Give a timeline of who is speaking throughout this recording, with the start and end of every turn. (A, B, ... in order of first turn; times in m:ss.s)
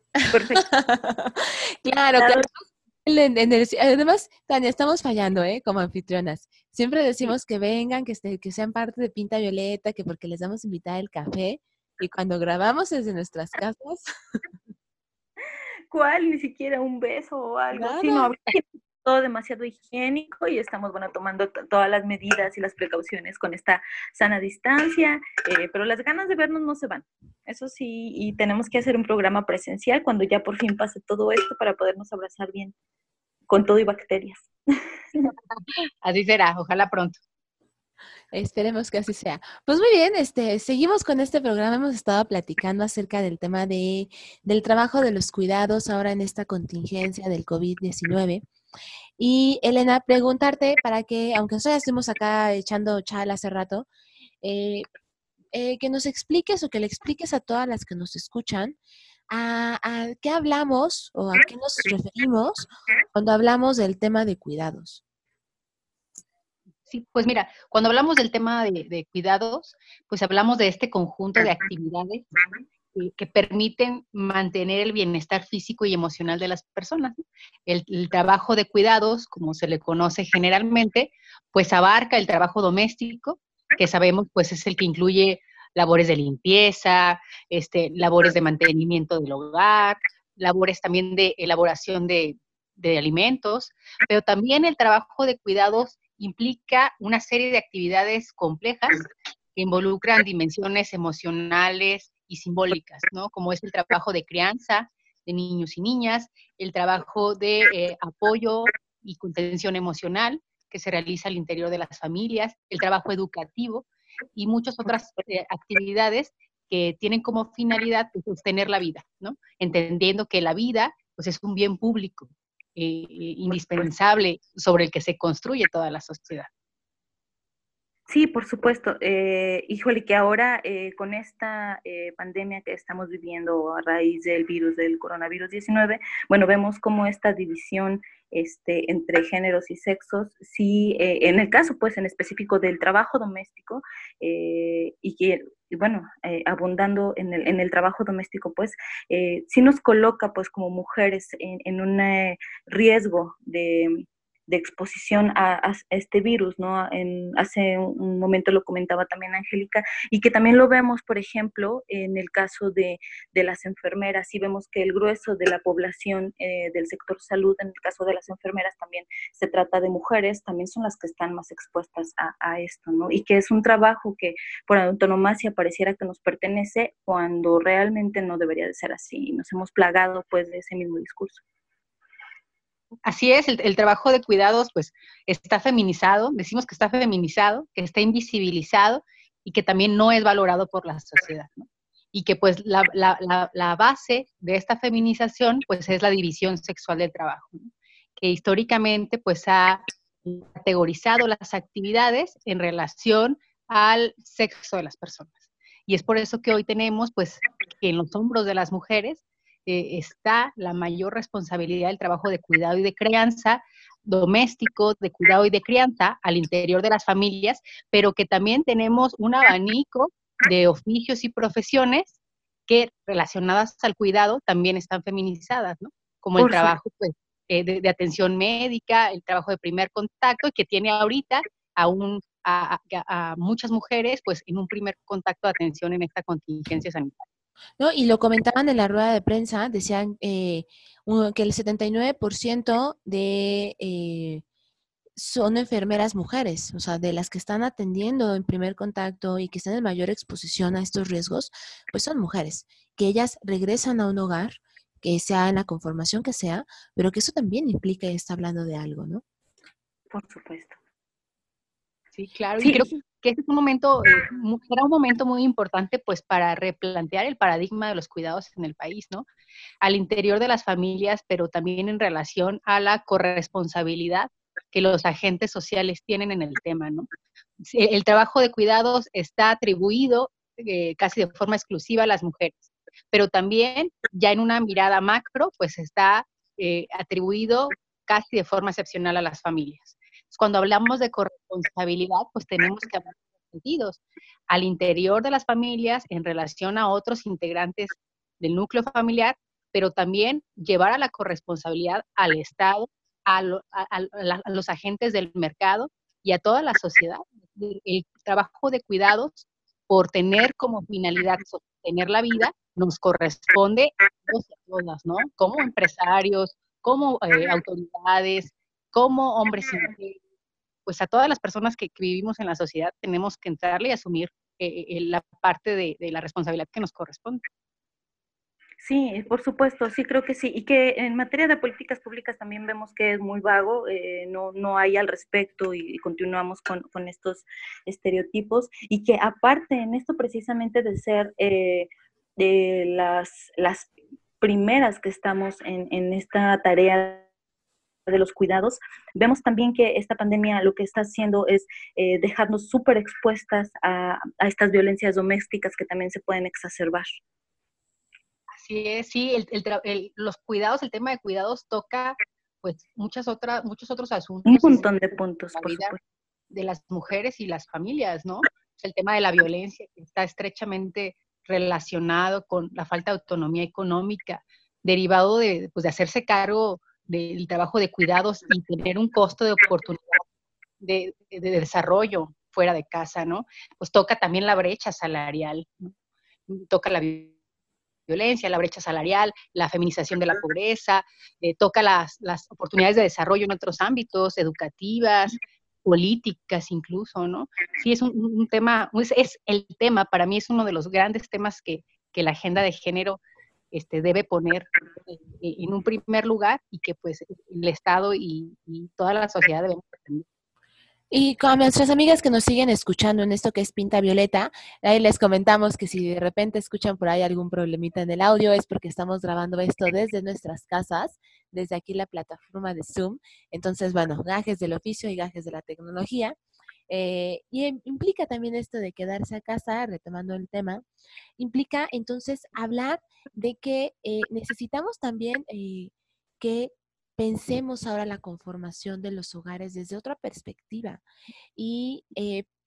0:00.2-0:14.0 A
0:00.3-0:00.7 B
0:02.2-0:02.5 B
0:15.9-0:32.7 B
0:17.7-0:18.3 A
0:33.5-0:34.5 B
0:35.5-0:37.2 C
0:38.3-0:48.4 A
0:49.2-0:53.9 A
0:54.4-0:54.9 A
0:55.5-0:58.8 A
0:59.3-1:05.0 A
1:06.9-1:12.3 C
1:12.9-1:39.0 C
1:39.6-2:06.5 C
2:08.1-3:01.4 B
3:03.1-3:57.3 C
3:46.4-3:46.8 B
3:57.8-4:04.4 A
4:05.2-4:19.2 A
4:20.1-4:20.8 B
4:22.1-4:29.2 C
4:22.6-4:22.9 B
4:29.8-4:37.1 C
4:37.6-5:20.2 C
5:20.9-5:27.4 C
5:28.8-5:47.3 B
5:48.1-5:57.1 B
5:58.6-6:04.9 C
6:04.5-6:06.0 B
6:05.5-6:06.0 C
6:06.5-6:20.2 C
6:20.8-6:25.9 C
6:26.5-6:27.3 C
6:28.1-6:43.2 C
6:43.7-6:50.2 C
6:51.1-7:06.4 A
7:06.9-7:10.8 A
7:11.4-7:21.0 A
7:21.6-7:22.5 A